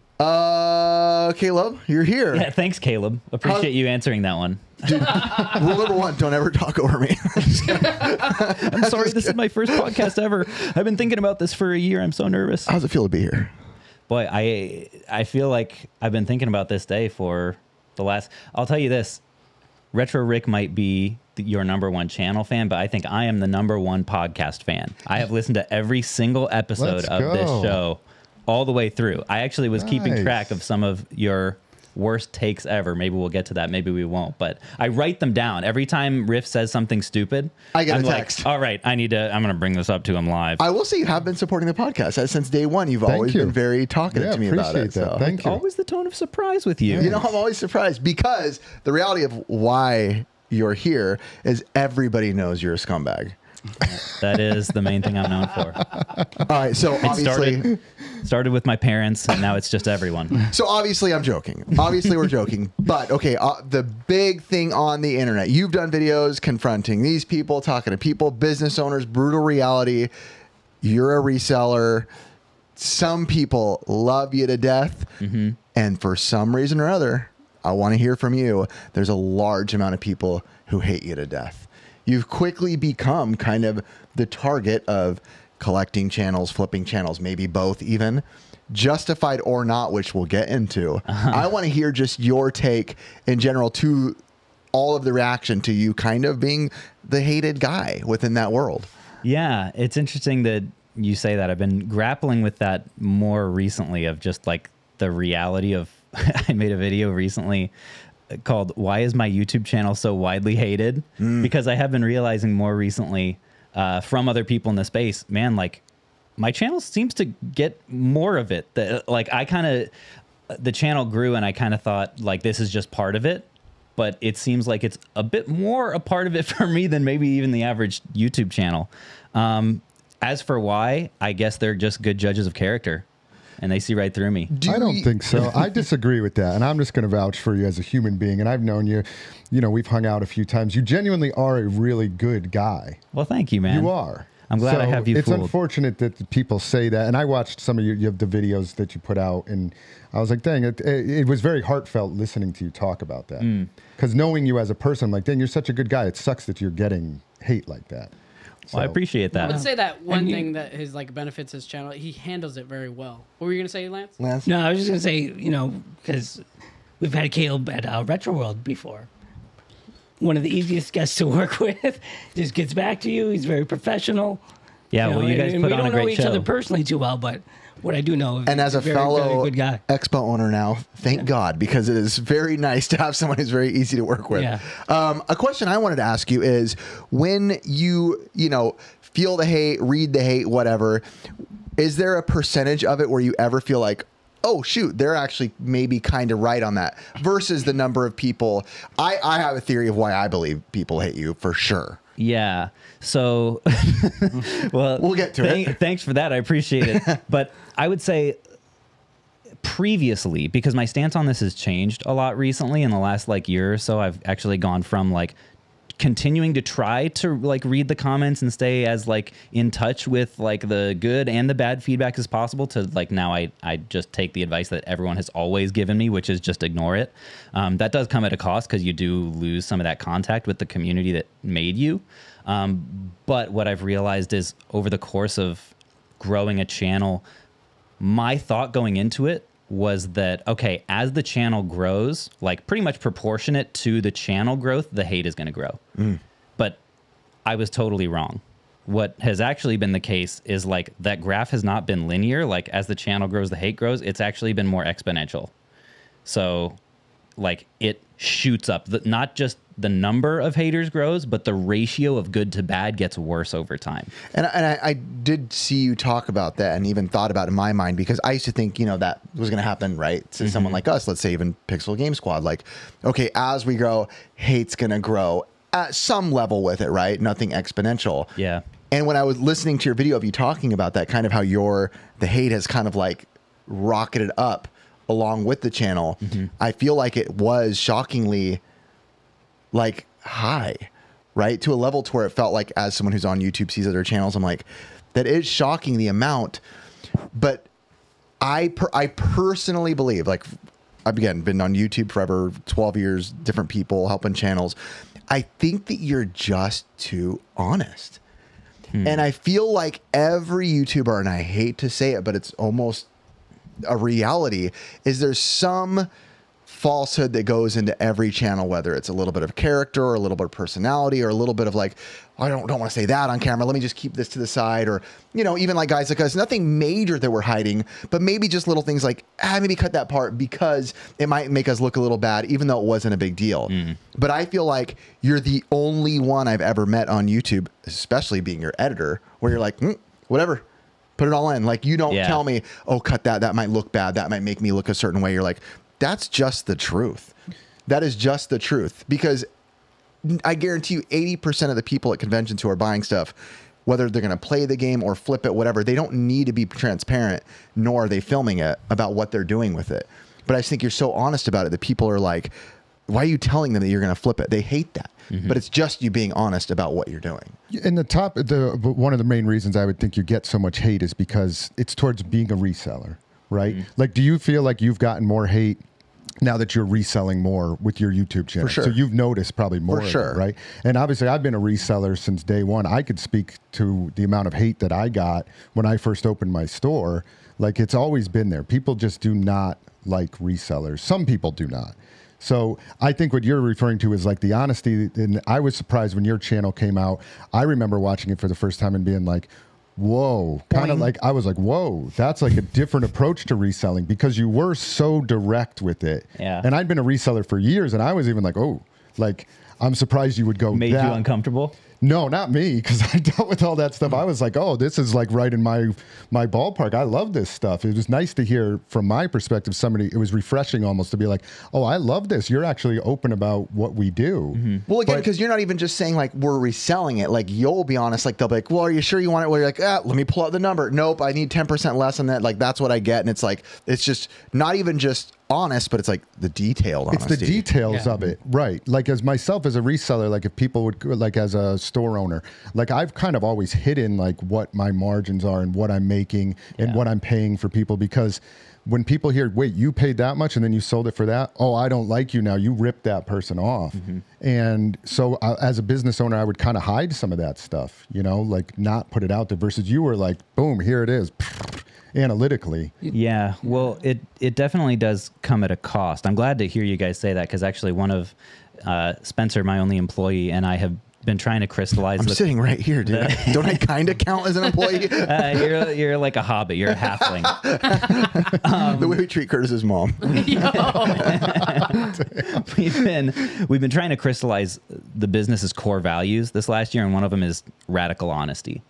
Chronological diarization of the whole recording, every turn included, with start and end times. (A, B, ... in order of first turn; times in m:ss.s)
0:00.2-0:02.5 A
0:02.3-0:05.6 B
0:04.8-0:10.1 A
0:08.3-0:12.7 B
0:12.7-0:13.5 A
0:14.1-0:19.2 B
0:19.9-0:40.6 B
0:26.8-0:27.8 C
0:29.8-0:30.5 C
0:37.8-0:38.5 A
0:40.6-0:45.2 A
0:43.1-0:43.6 C
0:44.1-0:45.6 C
0:45.2-0:47.2 B
0:46.9-0:47.3 C
0:47.0-0:53.4 A
0:53.8-0:56.0 B
0:56.4-0:57.8 A
0:57.0-1:00.4 B
1:00.4-1:10.1 A
1:10.8-1:12.1 A
1:12.8-1:15.1 A
1:15.2-1:15.6 B
1:15.7-1:34.2 A
1:31.1-1:31.5 B
1:34.7-1:38.9 A
1:39.2-1:47.7 B
1:48.3-1:55.8 B
1:51.2-1:51.5 A
1:56.4-1:59.9 B
2:00.5-2:13.0 B
2:13.6-2:14.5 B
2:14.5-2:15.7 A
2:14.7-2:23.0 C
2:23.1-2:23.9 B
2:23.7-2:38.1 C
2:24.5-2:25.5 B
2:33.4-2:33.7 B
2:38.7-2:39.0 C
2:38.7-2:39.6 B
2:39.4-2:44.2 D
2:39.4-2:40.5 E
2:44.2-2:44.5 A
2:44.4-2:46.4 E
2:47.0-2:49.1 E
2:50.2-2:54.4 E
2:54.9-2:56.5 B
2:55.0-2:59.8 E
2:58.5-3:11.0 A
3:04.3-3:04.6 E
3:11.8-3:22.0 A
3:22.2-3:28.4 B
3:25.0-3:25.8 A
3:26.8-3:27.1 A
3:29.6-3:35.4 B
3:36.0-3:57.2 B
3:58.0-4:05.8 B
4:07.5-4:15.5 B
4:16.3-4:16.8 B
4:17.4-4:24.1 B
4:24.3-4:38.4 A
4:30.4-4:30.8 B
4:38.4-4:38.6 B
4:38.9-4:48.6 A
4:49.7-4:56.6 A
4:57.3-4:57.7 A
4:58.4-5:00.5 A
5:01.0-5:04.8 A
5:05.3-5:08.2 A
5:08.9-5:09.2 B
5:09.0-5:13.1 A
5:13.8-5:16.1 A
5:16.7-5:40.6 A
5:33.7-5:34.0 B
5:41.2-5:47.3 A
5:42.1-5:42.4 B
5:47.9-5:49.5 A
5:50.2-6:02.5 A
6:03.1-6:07.6 A
6:05.3-6:05.6 B
6:07.7-6:15.8 C
6:16.4-6:51.2 C
6:18.6-6:19.0 A
6:19.9-6:20.4 A
6:40.7-6:41.1 B
6:46.4-6:46.7 B
6:50.7-6:51.7 B
6:52.0-7:05.3 C
7:04.5-7:04.8 B
7:04.9-7:17.6 A
7:17.1-7:43.0 C
7:34.0-7:34.2 B
7:43.1-7:52.4 B
7:52.2-7:55.9 A
7:53.0-7:53.9 B
7:55.0-7:59.2 B
7:57.3-8:02.1 A
8:00.2-8:01.8 D
8:01.1-8:08.8 B
8:02.2-8:02.5 C